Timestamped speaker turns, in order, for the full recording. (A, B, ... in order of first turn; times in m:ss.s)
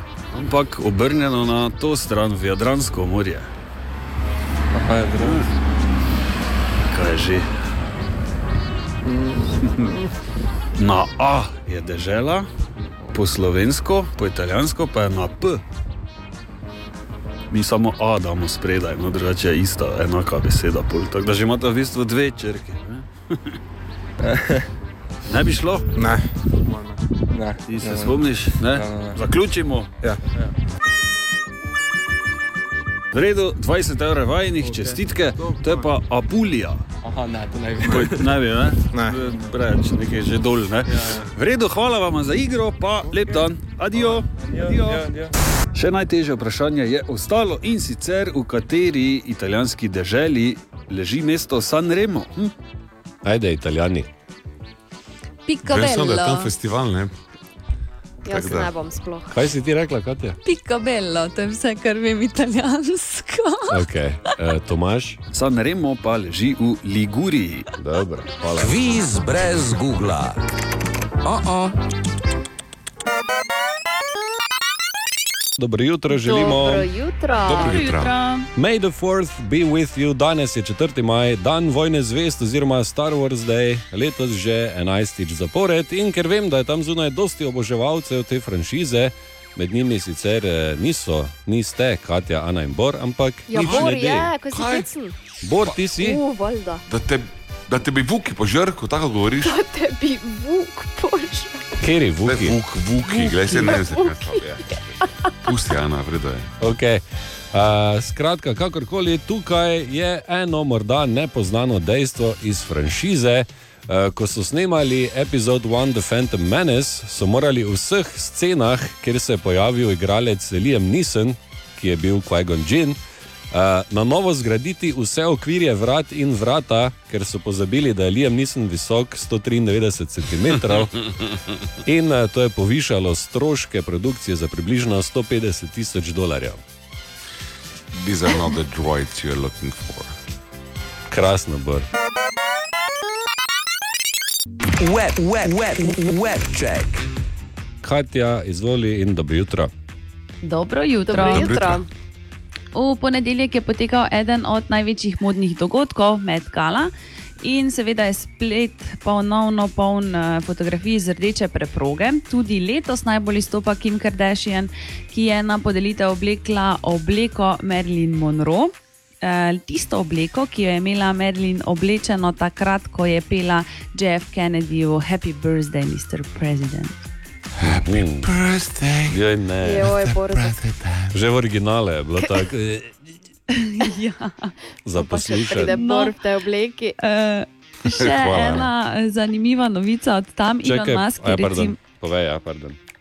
0:00.3-0:03.5 A
0:04.8-0:05.4 B
0:04.9-0:05.5 A
0:06.9-0:07.5 A
0:10.8-0:12.5 A
0:13.1-0:15.6 A
0:17.5-0:23.1 A
0:25.3-0:25.9 A
0:27.3-0:28.1 B
0:27.7-0:29.9 A
0:28.7-0:29.1 B
0:30.1-0:30.4 B
0:33.1-0:36.8 A
0:34.6-0:35.0 B
0:37.0-0:38.3 B
0:37.8-0:45.2 A
0:41.0-0:41.2 B
0:44.5-0:45.2 B
0:45.7-0:52.5 A
0:53.2-0:54.1 C
0:55.4-0:56.5 D
0:55.6-0:57.1 E
0:58.2-0:59.4 F
0:58.2-0:58.7 E
0:59.3-1:00.4 C
1:00.4-1:03.7 D
1:03.7-1:05.2 C
1:05.3-1:07.7 A
1:07.8-1:08.8 C
1:08.5-1:10.4 G
1:11.2-1:11.7 G
1:15.6-1:16.9 C
1:16.1-1:17.8 F
1:17.4-1:18.1 E
1:17.6-1:18.5 D
1:18.5-1:34.3 C
1:33.5-1:35.1 F
1:33.6-1:34.9 E
1:35.4-1:36.2 C
1:36.0-1:36.8 F
1:36.9-1:39.6 E
1:39.4-1:41.7 F
1:41.8-1:42.6 C
1:42.3-1:44.9 E
1:43.6-1:44.6 F
1:45.4-1:46.5 E
1:46.6-2:03.0 C
2:03.5-2:10.9 C
2:11.8-2:16.6 C
2:17.9-2:20.1 E
2:21.1-2:21.9 C
2:24.8-2:27.0 G
2:27.8-2:29.7 C
2:30.4-2:31.6 D
2:31.1-2:31.9 F
2:31.2-2:31.5 C
2:31.2-2:31.8 E
2:32.7-2:57.0 D
2:57.6-2:59.2 E
2:57.6-2:58.3 C
2:59.1-3:00.0 C
2:59.6-3:00.6 F
2:59.8-3:01.1 E
3:01.1-3:03.0 C
3:03.5-3:04.5 D
3:04.8-3:05.8 C
3:05.0-3:07.0 F
3:05.5-3:06.2 D
3:07.0-3:11.8 D
3:07.9-3:08.7 E
3:10.6-3:12.8 C